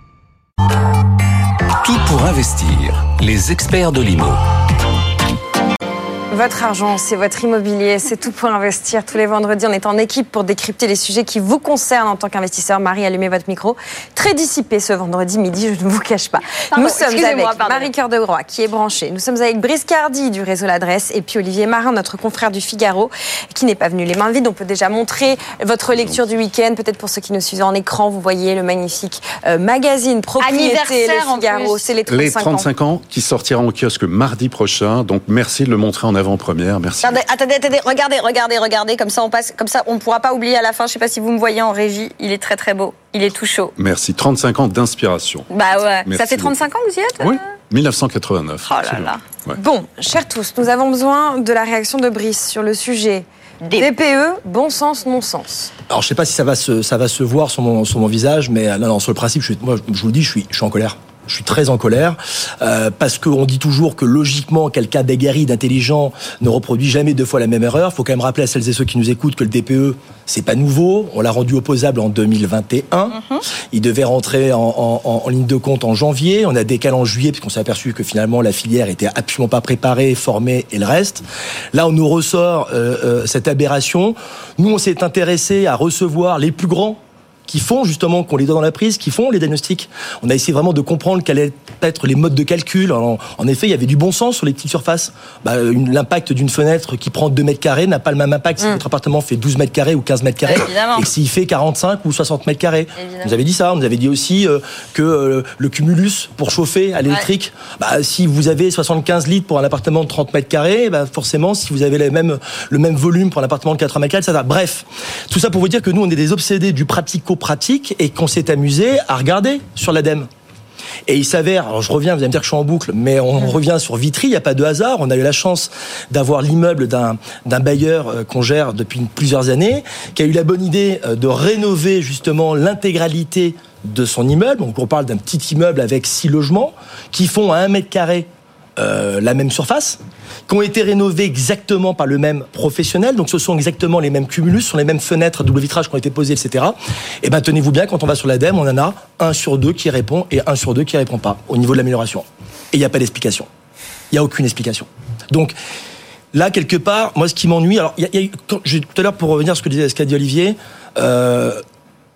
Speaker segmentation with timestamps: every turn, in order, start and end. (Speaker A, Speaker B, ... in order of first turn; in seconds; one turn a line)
Speaker A: 1.8-4.4
Speaker B: 6.3-32.7
Speaker C: 16.6-17.9
Speaker D: 25.9-26.2
Speaker C: 30.4-31.9
Speaker D: 32.1-37.2
Speaker C: 37.0-43.7
Speaker D: 43.8-45.5
Speaker C: 45.5-47.4
Speaker D: 46.0-46.5
Speaker D: 47.2-49.6
Speaker C: 48.6-49.2
Speaker B: 49.5-53.2
Speaker B: 53.8-55.7
Speaker E: 55.9-73.2
Speaker C: 73.1-73.4
Speaker E: 73.7-120.3
Speaker C: 100.4-101.1
Speaker C: 103.0-103.3
Speaker E: 121.1-153.5
Speaker E: 154.1-155.5
Speaker E: 156.3-161.6